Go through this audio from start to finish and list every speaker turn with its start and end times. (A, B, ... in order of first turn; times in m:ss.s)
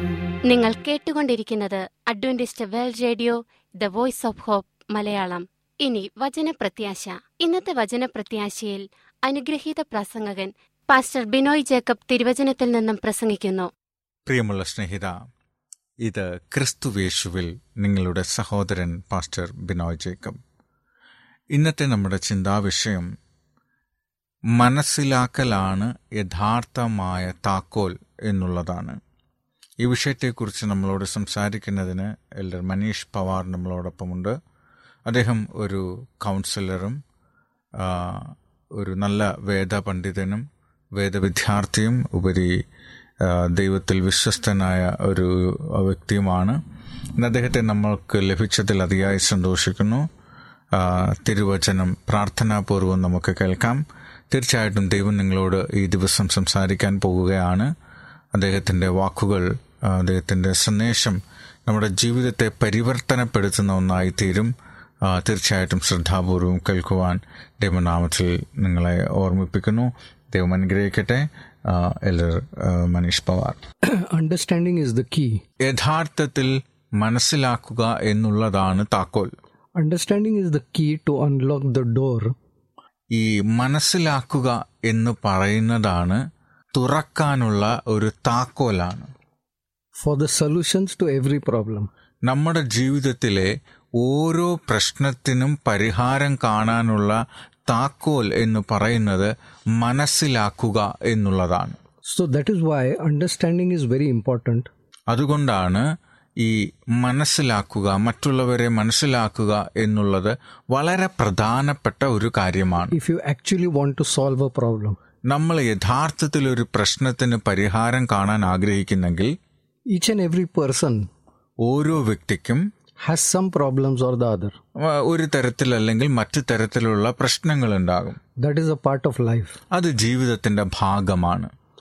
0:00.4-0:13.7 A
0:14.3-0:15.2 B
0:16.0-0:20.4 B
0:21.5-0:23.1 B
0:24.5-0:29.0 B
0:29.8-0:34.4 B
0:35.1-0:37.0 B
0:37.8-0:42.6 B
0:43.2-0:46.6 B
0:47.2-0:50.1 B
0:50.7-0:57.7 B
0:58.3-1:04.5 B
1:05.0-1:13.6 B
1:13.8-1:15.4 C
1:15.6-1:19.3 B
1:19.8-1:22.4 C
1:23.1-1:26.2 B
1:26.7-1:29.1 B
1:30.0-1:31.9 C
1:32.3-1:41.8 B
1:42.0-1:44.7 C
1:45.1-1:45.8 B
1:46.4-1:52.9 B
1:52.9-1:55.0 C
1:55.3-1:59.4 B
1:59.9-2:01.1 C
2:01.6-2:02.7 B
2:03.0-2:04.6 C
2:04.8-2:08.2 B
2:08.4-2:09.6 C
2:09.7-2:11.5 B